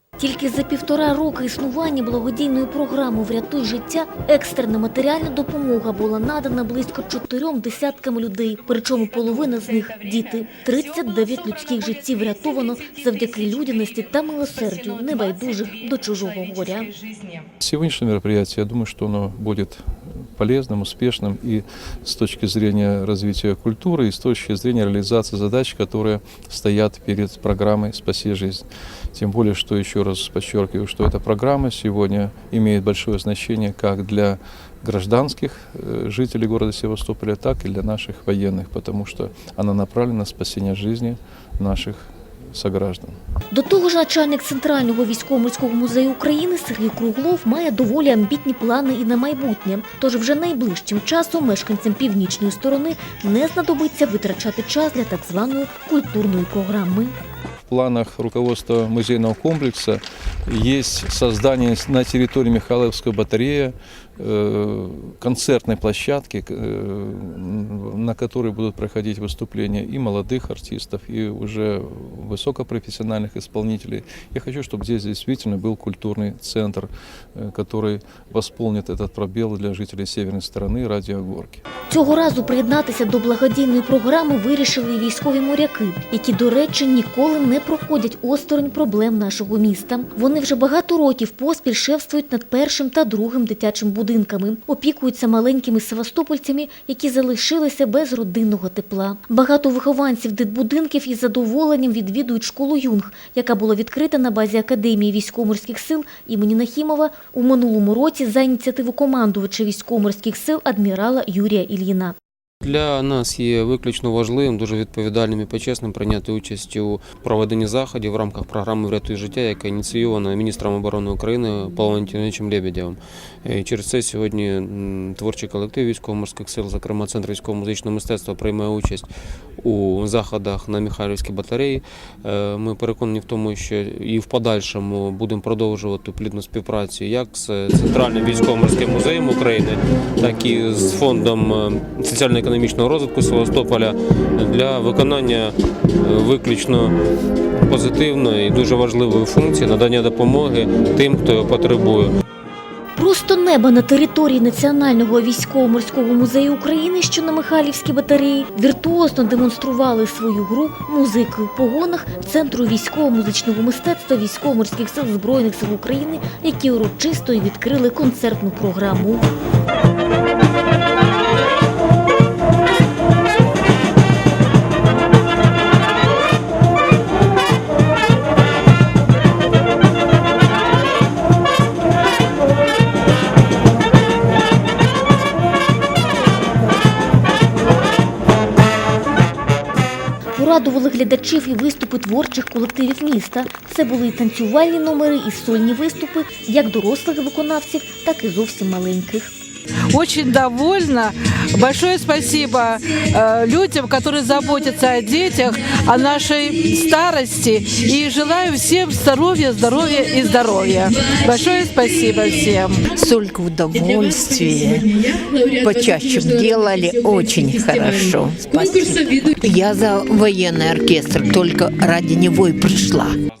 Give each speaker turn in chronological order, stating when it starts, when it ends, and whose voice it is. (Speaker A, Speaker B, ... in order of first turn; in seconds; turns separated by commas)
Speaker A: 0.2-16.9, Speaker B: 17.6-19.8, Speaker B: 20.4-43.1, Speaker A: 43.5-57.1, Speaker B: 57.7-81.6, Speaker A: 81.9-112.1, Speaker C: 112.6-146.9, Speaker C: 147.7-152.2, Speaker A: 152.9-169.2, Speaker A: 190.3-199.3, Speaker D: 199.9-212.9, Speaker E: 212.9-214.9, Speaker E: 215.6-223.2